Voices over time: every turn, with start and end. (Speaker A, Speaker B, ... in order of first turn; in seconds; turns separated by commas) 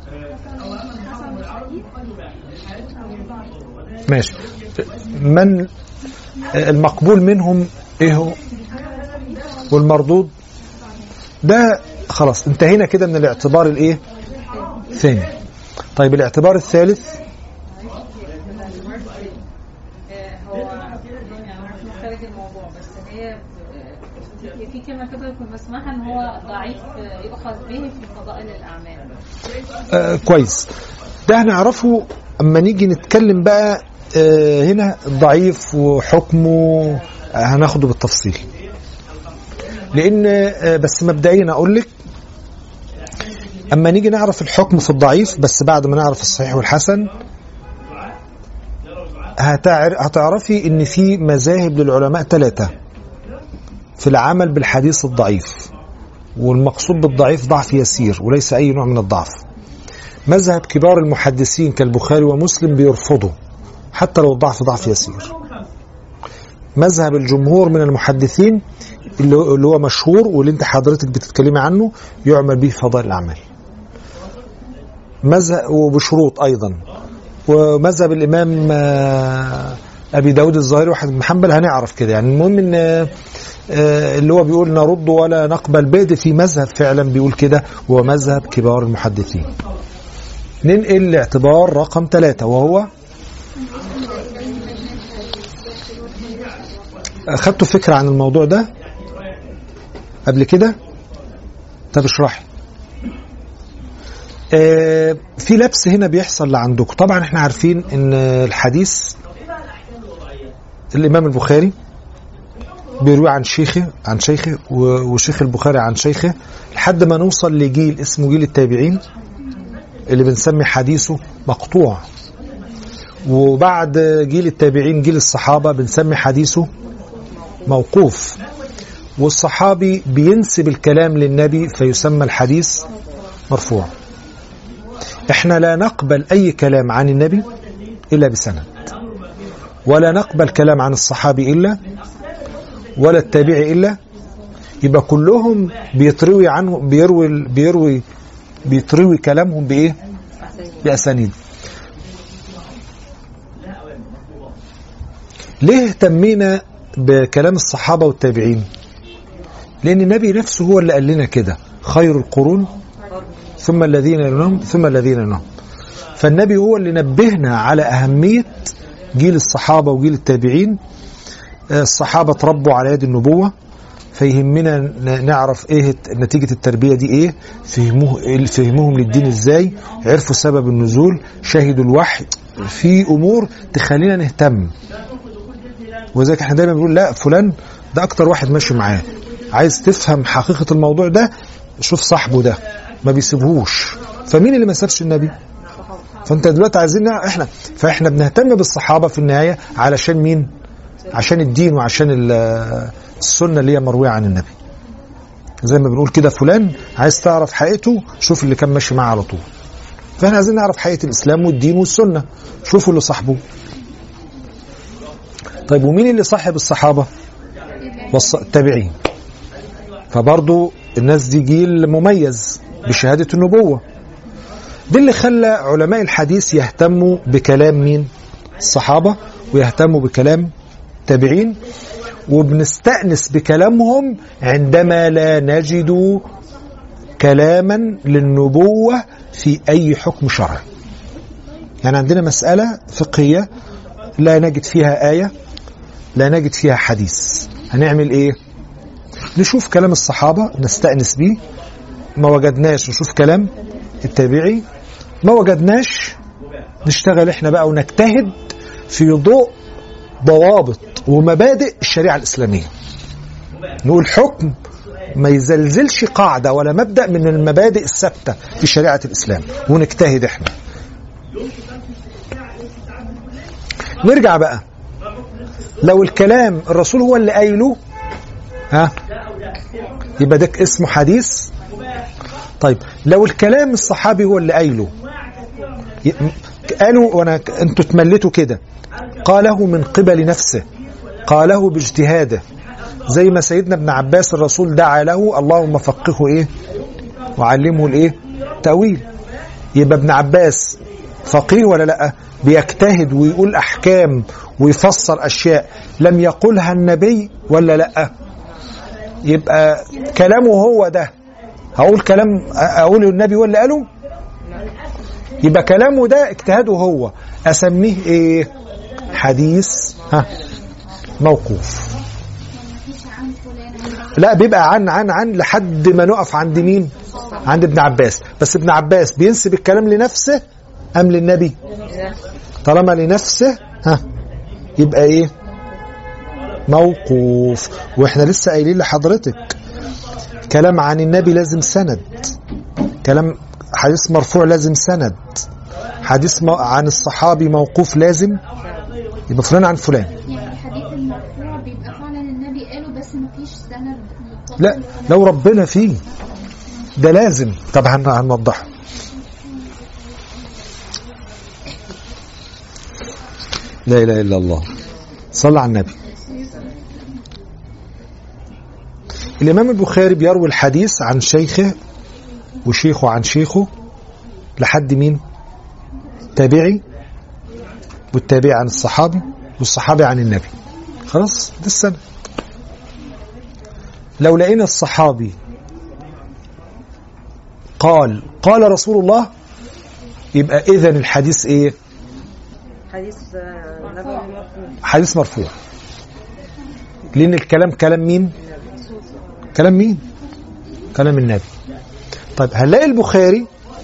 Speaker A: 0.3-1.9, Speaker A: 3.0-3.4, Speaker B: 4.1-5.7, Speaker B: 6.5-8.4, Speaker A: 8.6-9.7, Speaker B: 9.7-10.3, Speaker B: 11.4-14.0, Speaker B: 14.9-15.3, Speaker B: 16.0-17.2, Speaker C: 17.7-19.4, Speaker C: 20.1-29.1, Speaker B: 29.9-30.7, Speaker B: 31.3-38.5, Speaker B: 39.9-41.9, Speaker B: 43.7-47.1, Speaker B: 49.4-52.7, Speaker B: 54.0-55.7, Speaker B: 56.4-59.4, Speaker B: 60.3-63.4, Speaker B: 63.9-65.3, Speaker B: 66.8-68.6, Speaker B: 69.2-73.4, Speaker B: 75.2-76.8, Speaker B: 77.5-83.1, Speaker B: 83.7-89.5, Speaker B: 90.6-92.9, Speaker A: 93.6-96.5, Speaker C: 94.0-95.0, Speaker B: 97.3-98.7, Speaker B: 100.3-100.8, Speaker B: 101.9-102.5, Speaker B: 104.5-109.2, Speaker B: 110.9-111.8, Speaker B: 113.0-119.0, Speaker B: 120.1-122.0, Speaker B: 123.2-126.7, Speaker D: 127.4-127.7, Speaker B: 127.7-128.4, Speaker B: 129.2-132.9, Speaker B: 133.5-133.9, Speaker B: 135.3-137.5, Speaker B: 138.1-138.9, Speaker B: 139.9-141.8, Speaker B: 143.0-144.0, Speaker B: 144.8-148.0, Speaker B: 148.6-150.0, Speaker D: 150.4-151.0, Speaker B: 150.8-151.3, Speaker B: 155.6-158.7, Speaker B: 159.8-162.7, Speaker D: 163.1-163.6, Speaker B: 163.6-165.4, Speaker B: 166.2-170.8, Speaker B: 171.7-173.5, Speaker B: 174.1-184.7, Speaker B: 186.2-195.3, Speaker B: 196.3-200.5, Speaker B: 201.1-204.6, Speaker B: 205.6-209.4, Speaker B: 210.2-213.4, Speaker B: 215.7-217.1, Speaker A: 217.8-218.4, Speaker B: 218.1-218.9, Speaker B: 220.1-223.8, Speaker B: 224.9-230.5, Speaker B: 231.1-231.6, Speaker B: 232.3-236.3, Speaker B: 237.2-240.6, Speaker B: 241.8-243.5, Speaker B: 244.2-245.3, Speaker B: 246.2-248.4, Speaker B: 249.3-251.4, Speaker B: 252.2-254.7, Speaker B: 255.2-256.2, Speaker B: 256.8-259.6, Speaker B: 260.2-262.7, Speaker B: 263.8-264.6, Speaker B: 265.1-270.5, Speaker B: 274.0-274.6, Speaker B: 275.8-277.8, Speaker B: 280.2-281.5, Speaker B: 282.6-284.9, Speaker B: 286.0-288.6, Speaker B: 289.2-290.7, Speaker B: 291.2-292.4, Speaker B: 293.1-296.5, Speaker B: 297.4-299.1, Speaker B: 299.7-308.1, Speaker B: 309.2-311.1, Speaker B: 311.8-313.9, Speaker B: 315.4-318.5, Speaker D: 319.1-320.4, Speaker B: 319.1-320.3, Speaker B: 321.2-322.0, Speaker A: 322.5-324.4, Speaker B: 324.1-330.4, Speaker A: 326.9-327.5, Speaker B: 330.9-331.6, Speaker D: 331.8-332.1, Speaker B: 332.6-334.0, Speaker B: 334.8-335.3, Speaker B: 336.7-339.6, Speaker B: 340.5-342.4, Speaker B: 343.0-345.5, Speaker B: 346.0-348.4, Speaker D: 348.6-348.9, Speaker B: 349.3-350.1, Speaker A: 350.2-355.3, Speaker B: 354.6-356.0, Speaker B: 357.0-358.7, Speaker B: 363.9-364.7, Speaker B: 365.3-366.0, Speaker B: 369.4-371.8, Speaker B: 372.6-373.7, Speaker B: 374.6-375.2, Speaker B: 376.4-376.8, Speaker B: 378.1-380.5, Speaker B: 381.1-382.0, Speaker B: 384.2-385.4, Speaker B: 387.8-389.3, Speaker B: 390.3-391.8, Speaker D: 392.9-394.8, Speaker B: 394.8-395.6, Speaker B: 397.1-398.3, Speaker D: 398.5-399.5, Speaker B: 399.6-400.0, Speaker B: 400.9-401.5, Speaker B: 402.4-403.5